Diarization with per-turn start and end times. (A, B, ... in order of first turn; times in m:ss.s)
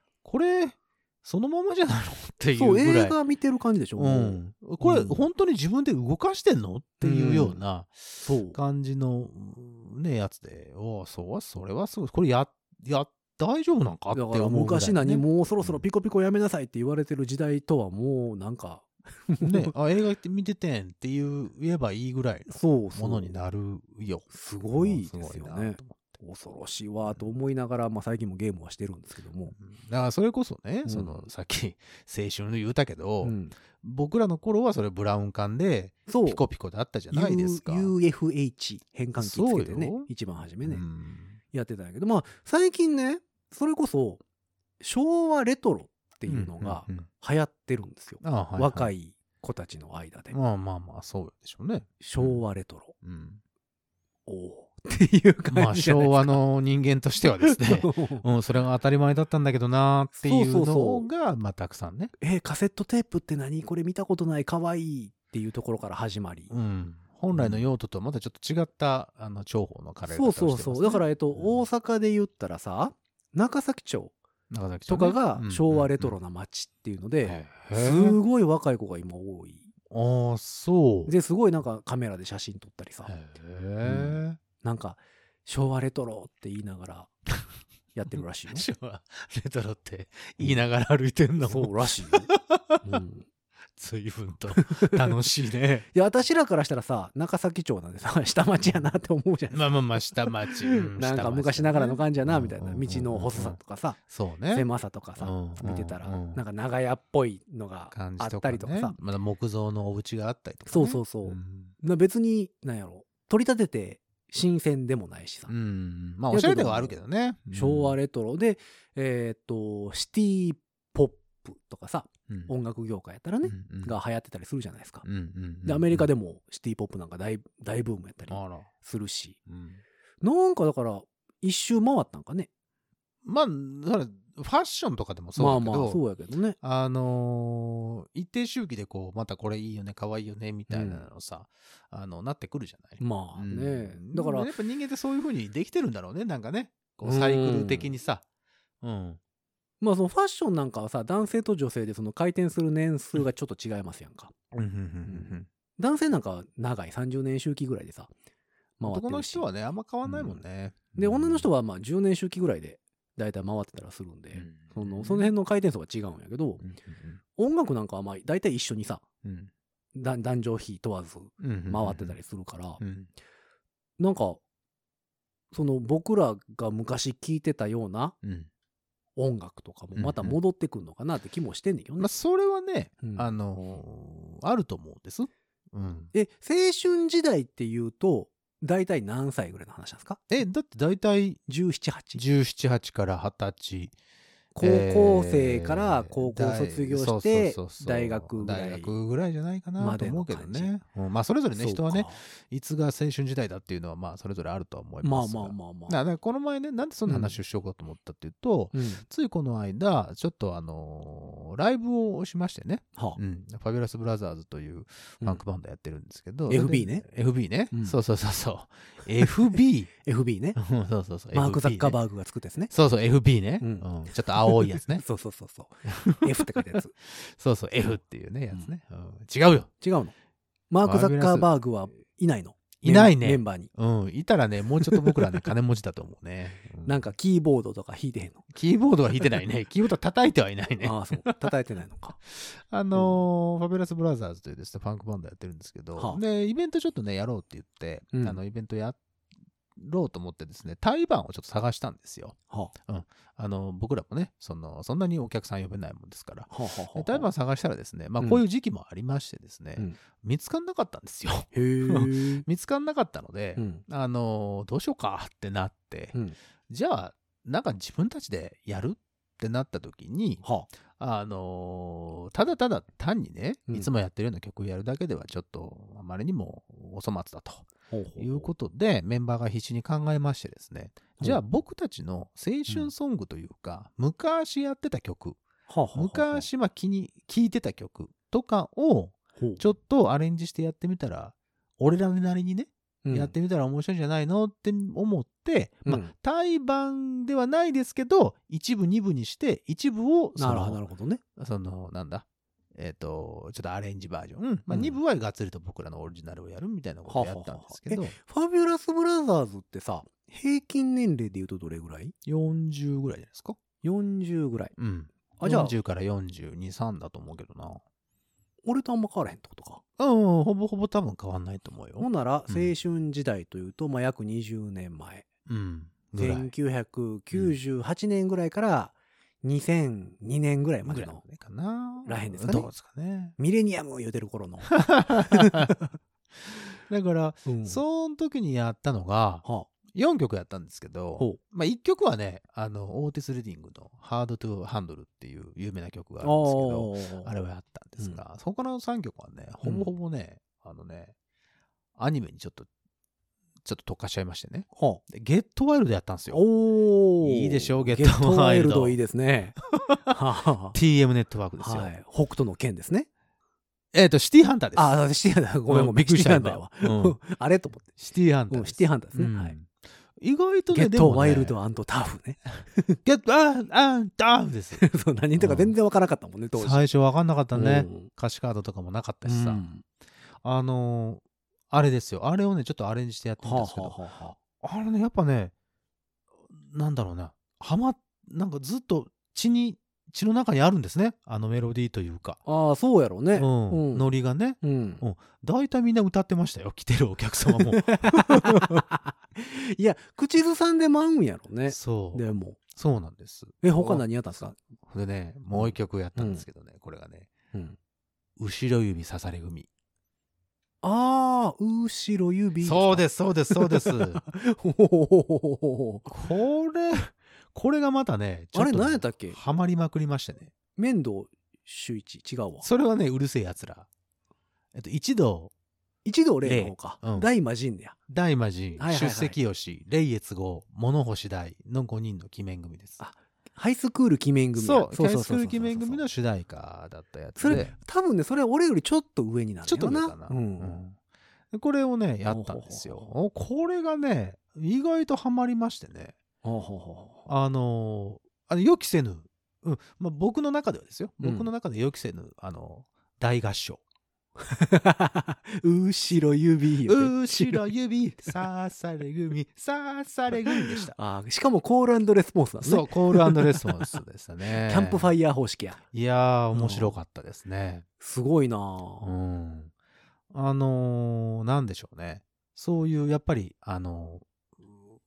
0:00.2-0:03.2 A
0:02.6-0:05.2 B
0:04.0-0:15.8 A
0:07.0-0:07.6 B
0:08.2-0:08.6 B
0:14.1-0:19.7 B
0:19.4-0:26.2 A
0:22.5-0:23.4 B
0:24.3-0:29.6 B
0:29.6-0:37.9 A
0:30.9-0:31.3 B
0:33.2-0:33.6 B
0:36.1-0:36.4 B
0:37.1-0:40.8 B
0:39.2-0:40.1 A
0:40.6-0:41.4 A
0:41.5-0:44.2 B
0:44.8-0:50.4 B
0:46.3-0:47.1 A
0:48.2-0:48.9 A
0:50.3-0:52.4 A
0:52.0-0:53.0 B
0:53.0-0:53.4 A
0:54.3-0:56.4 B
0:55.5-1:02.1 A
0:57.4-0:58.3 B
1:00.2-1:01.1 B
1:02.2-1:06.5 B
1:06.5-1:11.6 A
1:07.3-1:07.6 B
1:10.1-1:14.2 B
1:14.5-1:16.1 A
1:14.9-1:19.7 B
1:17.2-1:18.2 A
1:19.9-1:21.1 A
1:21.1-1:23.1 B
1:23.1-1:24.4 A
1:23.8-1:27.1 B
1:27.9-1:28.7 B
1:28.5-1:33.0 A
1:31.4-1:32.3 B
1:32.8-1:33.3 B
1:33.8-1:35.9 A
1:34.6-1:35.0 B
1:35.9-1:44.0 B
1:39.5-1:44.7 A
1:44.5-1:49.0 B
1:45.2-1:46.4 A
1:47.9-1:51.7 A
1:50.7-1:55.5 B
1:55.5-1:58.0 A
1:56.3-1:57.0 B
1:57.5-2:05.1 B
2:03.4-2:04.0 A
2:05.0-2:06.1 A
2:05.6-2:09.4 B
2:08.3-2:08.7 A
2:09.5-2:09.8 A
2:10.2-2:12.5 B
2:13.2-2:16.0 A
2:15.4-2:16.6 B
2:16.6-2:28.2 A
2:20.7-2:21.1 B
2:23.0-2:24.5 B
2:27.0-2:27.9 B
2:28.8-2:29.2 A
2:29.8-2:34.4 B
2:34.5-2:35.5 A
2:35.1-2:38.1 B
2:38.8-2:39.5 B
2:38.9-2:41.5 A
2:40.0-2:40.4 B
2:41.0-2:46.6 B
2:44.4-2:45.3 A
2:46.6-2:47.2 A
2:47.4-2:49.0 B
2:49.2-2:49.5 A
2:50.0-2:52.8 B
2:51.4-2:52.2 A
2:52.8-2:53.1 A
2:54.0-2:54.4 B
2:55.5-2:58.2 B
2:58.2-2:58.5 A
2:59.2-3:02.1 B
3:00.0-3:00.4 A
3:02.0-3:06.1 A
3:03.0-3:03.3 B
3:06.1-3:10.2 B
3:10.3-3:11.4 A
3:11.5-3:12.2 B
3:12.1-3:13.9 A
3:14.5-3:18.9 B
3:14.6-3:39.9 A
3:19.8-3:20.7 B
3:21.6-3:22.2 B
3:25.0-3:26.0 B
3:27.1-3:27.4 B
3:28.7-3:29.0 B
3:36.5-3:37.1 B
3:37.7-3:38.0 B
3:40.0-3:40.6 B
3:40.6-3:42.0 A
3:41.3-3:42.7 B
3:42.7-3:45.0 A
3:43.6-3:46.9 B
3:45.9-3:49.7 A
3:49.8-3:50.1 B
3:50.7-3:53.7 B
3:50.8-3:51.5 A
3:52.8-3:57.0 A
3:54.9-3:55.4 B
3:56.8-3:58.4 B
3:58.5-4:01.5 A
4:00.8-4:02.2 B
4:02.3-4:09.0 A
4:06.0-4:06.2 B
4:08.1-4:08.4 B
4:09.8-4:26.2 A
4:16.5-4:17.3 B
4:21.5-4:22.5 B
4:23.6-4:23.8 B
4:26.7-4:30.4 A
4:31.0-4:45.4 A
4:37.9-4:38.5 B
4:45.7-4:46.5 B
4:45.9-5:00.8 A
4:49.4-4:49.6 B
4:53.0-4:53.3 B
4:55.9-4:56.1 B
5:00.4-5:01.2 B
5:01.4-5:08.2 A
5:04.7-5:05.0 B
5:07.1-5:12.2 B
5:12.2-5:13.6 A
5:13.8-5:14.8 B
5:14.8-5:17.8 A
5:15.4-5:15.8 B
5:18.6-5:19.8 B
5:20.0-5:22.7 A
5:22.0-5:25.3 B
5:25.5-5:26.5 A
5:26.2-5:31.2 B
5:30.8-5:33.4 A
5:32.0-5:32.7 B
5:33.4-5:35.9 B
5:34.9-5:35.7 A
5:36.9-5:51.1 A
5:37.5-5:37.8 B
5:46.2-5:47.3 B
5:49.6-5:49.9 B
5:52.0-5:52.7 A
5:53.6-5:56.4 A
5:54.7-5:55.0 B
5:56.3-6:00.8 B
5:57.2-5:59.0 A
5:59.9-6:00.2 A
6:00.7-6:01.9 A
6:01.6-6:03.1 B
6:03.9-6:05.0 A
6:04.8-6:08.0 B
6:05.7-6:07.2 A
6:08.0-6:11.6 A
6:08.5-6:09.6 B
6:10.7-6:13.0 B
6:13.0-6:14.8 A
6:14.8-6:16.8 B
6:15.4-6:15.7 A
6:16.6-6:19.6 A
6:17.5-6:18.1 B
6:19.2-6:19.8 B
6:20.4-6:25.5 A
6:23.4-6:24.4 B
6:26.5-6:32.4 A
6:32.5-6:34.1 B
6:33.4-6:38.8 A
6:34.6-6:35.0 B
6:37.6-6:42.6 B
6:41.7-6:47.3 A
6:43.6-6:44.6 B
6:45.5-6:46.4 B
6:48.4-6:49.7 A
6:50.8-6:56.2 B
6:52.6-6:54.2 A
6:56.1-7:00.5 A
6:58.5-6:59.4 B
7:00.8-7:02.7 B
7:02.6-7:03.9 A
7:04.7-7:05.5 A
7:06.0-7:08.0 B
7:06.4-7:07.3 A
7:08.1-7:13.0 A
7:08.8-7:09.4 B
7:13.0-7:16.0 B
7:14.6-7:17.7 A
7:17.4-7:20.8 B
7:19.7-7:21.0 A
7:21.5-7:26.2 A
7:22.3-7:23.1 B
7:26.4-7:27.3 B
7:27.3-7:33.8 A
7:31.2-7:31.5 B
7:34.4-7:37.6 B
7:36.9-7:41.0 A
7:40.6-7:44.0 B
7:42.6-7:45.1 A
7:44.6-7:45.8 B
7:45.9-7:47.8 A
7:46.5-7:47.0 B
7:48.0-7:49.1 B
7:49.0-7:49.7 A
7:50.3-7:54.8 A